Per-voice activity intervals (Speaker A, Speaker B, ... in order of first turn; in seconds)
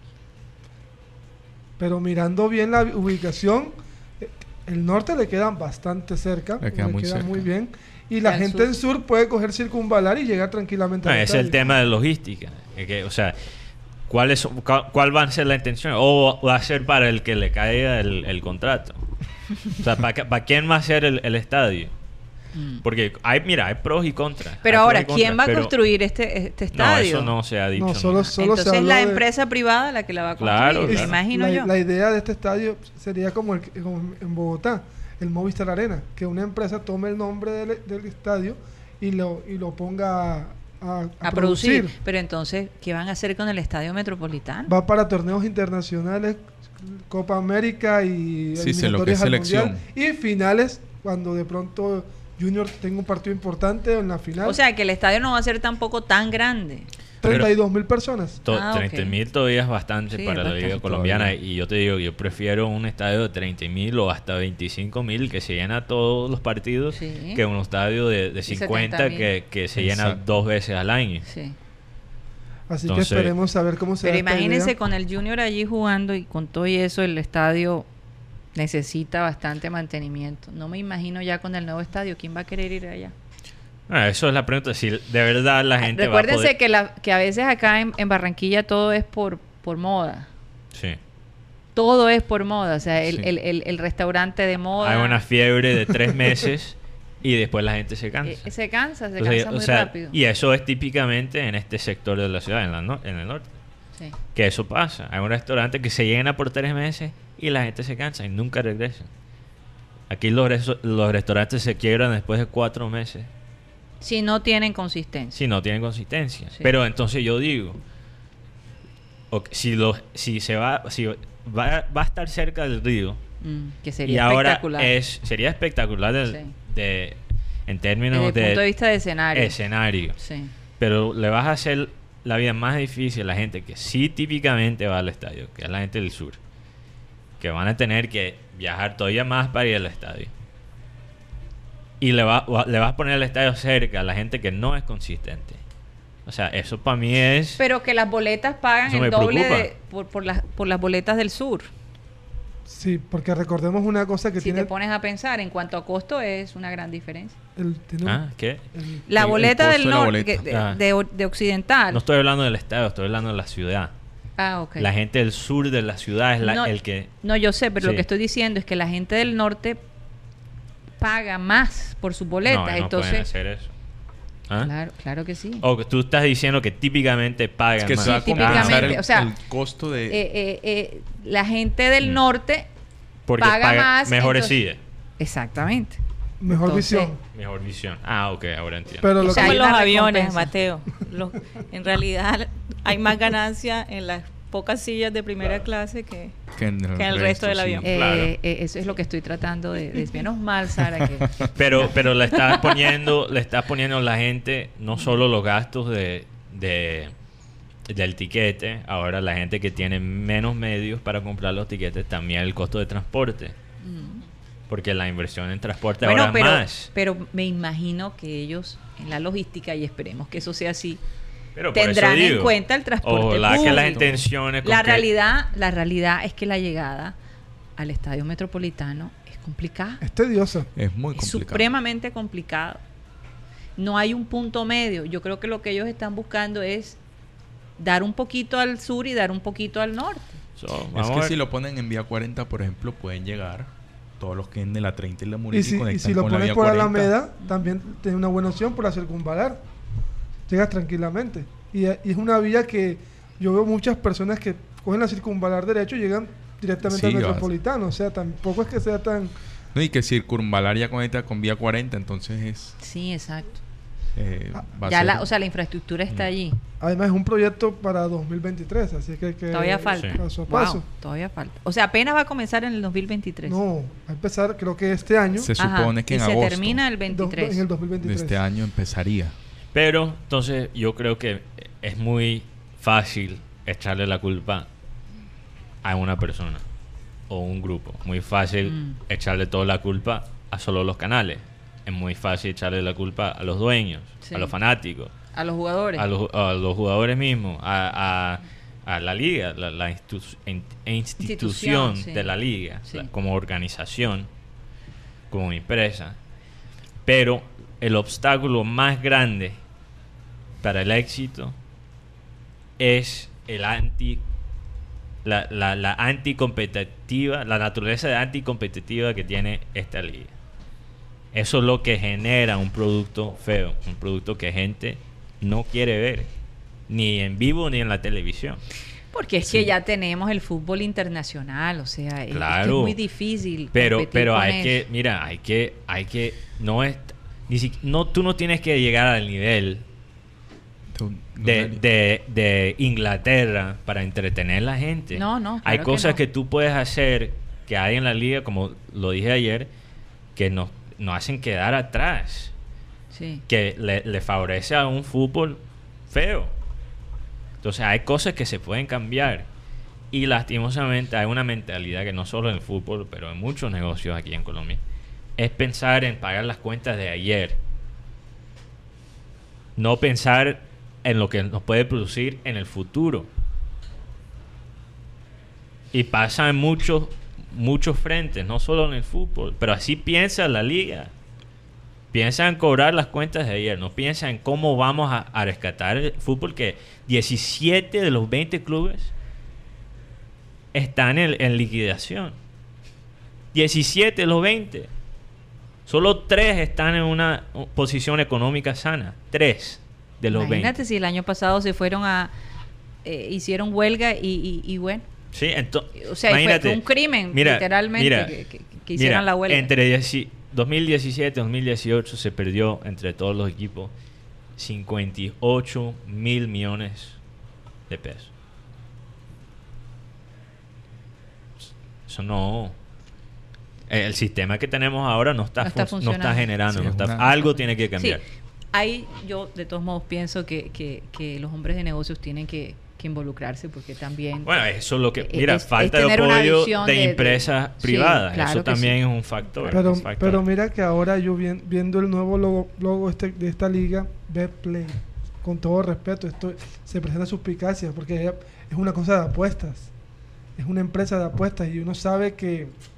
Speaker A: 1.8-11.6, 27.8-29.2, 30.9-41.9, 44.7-54.6, 57.2-58.4, 72.7-74.7, 152.7-154.7, 157.6-159.1, 186.4-187.2, 189.0-189.6, 230.0-230.7, 245.5-249.6, 250.5-259.3, 266.8-270.8, 273.4-275.5, 277.1-278.4, 439.7-449.9, 450.6-452.8
Speaker B: 6.6-7.5, 48.5-49.9, 69.8-70.2, 159.2-160.6, 177.8-180.2, 196.5-197.9, 230.7-231.7, 240.9-247.1, 256.8-257.5, 259.7-262.7, 264.1-265.3, 275.4-276.9, 278.0-279.3, 340.9-341.8, 426.7-427.5
Speaker C: 8.2-8.7, 22.5-22.8, 24.6-27.3, 28.3-31.7, 41.2-44.7, 54.4-56.9, 58.5-59.2, 60.1-61.2, 66.9-67.4, 68.5-69.3, 71.2-71.5, 74.0-77.9, 78.5-83.1, 85.8-90.3, 91.8-95.2, 98.2-100.2, 114.0-115.3, 123.4-124.9, 128.1-129.5, 130.2-130.5, 147.6-151.7, 154.4-157.3, 159.1-162.0, 164.4-164.9, 166.4-169.8, 171.0-173.3, 174.6-175.6, 178.0-179.3, 180.1-182.7, 183.4-184.6, 185.2-187.1, 189.2-190.5, 197.8-201.9, 213.8-214.2, 216.0-221.0, 221.7-227.2, 227.8-230.0, 231.1-232.8, 233.8-237.0, 237.8-240.3, 262.8-263.6, 264.9-266.6, 269.5-273.6, 275.6-277.6, 288.6-288.9, 294.2-294.5, 295.3-296.1, 301.2-302.3, 329.1-334.8, 345.1-346.2, 353.1-353.4, 400.3-402.3, 403.0-405.0, 405.9-409.7, 425.6-426.5, 428.7-434.5, 435.2-438.9
Speaker D: 11.0-13.4, 14.1-19.0, 19.7-21.9, 22.8-25.7, 26.7-28.3, 30.4-31.1, 57.2-57.5, 58.4-71.2, 72.8-73.3, 83.9-86.5, 90.7-91.0, 94.8-98.5, 99.2-103.5, 104.3-109.1, 110.1-113.3, 115.3-117.8, 119.3-123.2, 124.0-128.8, 129.3-130.2, 130.8-136.4, 137.4-140.3, 142.0-145.6, 146.2-147.6, 148.8-149.7, 158.0-158.6, 160.5-160.8, 161.9-163.9, 164.8-167.2, 167.8-168.0, 172.4-173.7, 175.6-179.0, 183.3-184.8, 187.3-189.1, 197.8-198.3, 201.5-207.1, 207.9-213.5, 214.7-216.9, 221.5-225.1, 240.6-241.3, 279.7-284.7, 285.8-286.6, 287.3-295.1, 296.0-304.3, 305.3-306.2, 307.0-309.6, 310.6-311.6, 312.8-314.2, 315.2-320.3, 321.3-326.3, 326.9-328.6, 329.4-329.7, 332.3-333.0, 333.7-339.8, 341.4-349.7, 350.3-352.5, 353.5-356.5, 357.6-359.5, 360.1-364.8, 365.4-367.6, 369.8-373.3, 375.9-381.1, 382.1-389.1, 390.7-392.4, 393.5-394.9, 395.9-400.7, 405.3-413.9, 414.6-417.2, 417.9-418.3, 422.1-422.8, 423.9-428.2, 434.4-440.4
Speaker E: 189.2-196.4, 196.9-197.9